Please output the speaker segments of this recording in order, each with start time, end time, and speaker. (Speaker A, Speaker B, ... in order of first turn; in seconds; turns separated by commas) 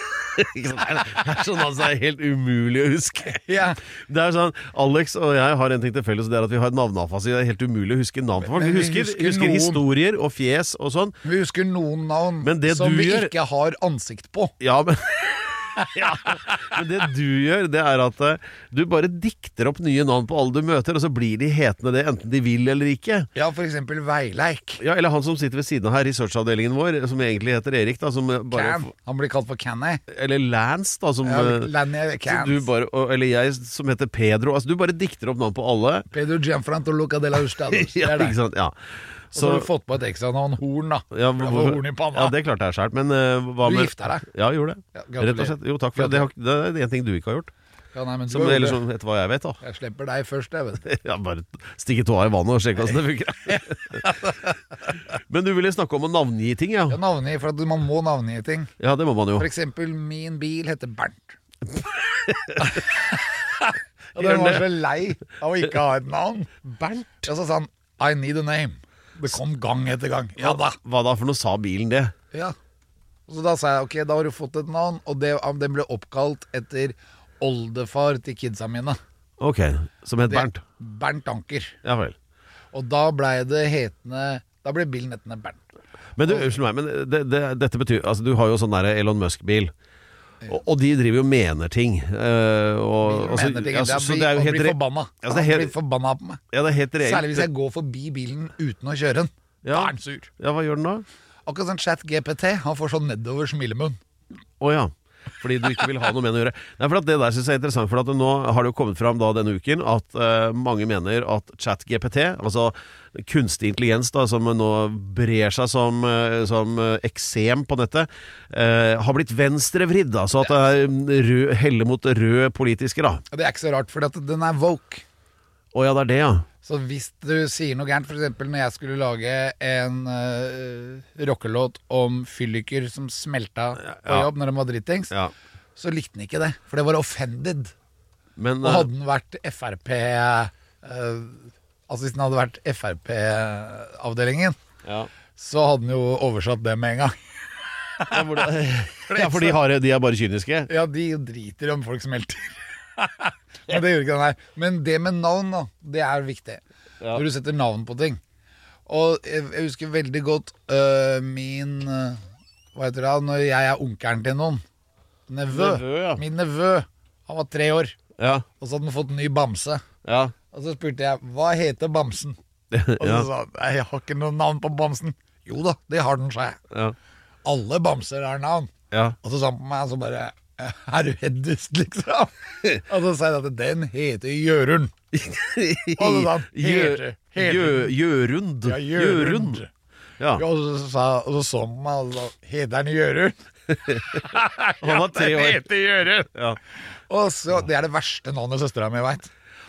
Speaker A: 0.4-3.4, Speaker B: 3.4-3.8, Speaker A: 4.1-11.2, Speaker B: 8.4-9.8, Speaker B: 11.2-14.5, Speaker A: 12.4-13.3, Speaker A: 14.6-23.3, Speaker B: 15.8-16.7, Speaker B: 23.4-24.8, Speaker A: 24.8-28.9, Speaker B: 28.5-30.0, Speaker A: 30.1-31.7, Speaker B: 31.2-32.7, Speaker A: 32.3-36.1, Speaker B: 36.1-38.4, Speaker A: 37.7-38.7, Speaker A: 39.3-39.7, Speaker B: 39.3-42.4, Speaker A: 41.1-47.5, Speaker B: 43.6-44.2, Speaker B: 45.0-46.3, Speaker B: 47.9-48.8, Speaker A: 48.3-49.6, Speaker B: 49.6-50.8, Speaker A: 50.8-57.0, Speaker B: 53.5-54.4, Speaker B: 56.9-58.7, Speaker A: 58.8-59.5, Speaker B: 59.4-61.4, Speaker A: 61.7-62.8, Speaker B: 62.6-70.8, Speaker A: 64.2-64.7, Speaker A: 66.7-67.3, Speaker A: 70.4-72.1, Speaker B: 73.3-79.0, Speaker A: 79.4-80.6, Speaker B: 80.3-81.8, Speaker A: 81.8-82.2, Speaker B: 82.7-85.6, Speaker A: 86.2-89.7, Speaker A: 90.5-95.7, Speaker B: 93.0-96.4, Speaker A: 96.5-97.5, Speaker B: 97.0-100.3, Speaker A: 99.6-101.0, Speaker B: 101.5-104.0, Speaker A: 104.6-123.2, Speaker B: 123.3-125.0, Speaker A: 125.7-126.5, Speaker B: 126.6-135.1, Speaker A: 133.8-134.3, Speaker B: 135.8-137.7, Speaker A: 138.4-138.9, Speaker B: 138.6-144.6, Speaker A: 144.8-145.1, Speaker B: 145.4-147.2, Speaker B: 148.0-148.5, Speaker A: 148.1-150.7, Speaker B: 149.1-149.6, Speaker B: 150.7-158.2, Speaker B: 158.9-162.2, Speaker B: 162.7-164.6, Speaker B: 165.3-168.0, Speaker A: 165.5-166.2, Speaker A: 168.2-168.4, Speaker B: 168.6-169.8, Speaker A: 170.1-170.3, Speaker B: 170.5-172.4, Speaker A: 172.7-173.3, Speaker B: 173.0-176.6, Speaker B: 177.4-184.9, Speaker A: 178.9-179.2, Speaker A: 185.1-189.6, Speaker B: 186.0-187.9, Speaker B: 188.6-189.7, Speaker B: 190.4-193.4, Speaker A: 193.9-194.2, Speaker B: 193.9-196.3, Speaker A: 194.8-195.7, Speaker B: 197.1-199.3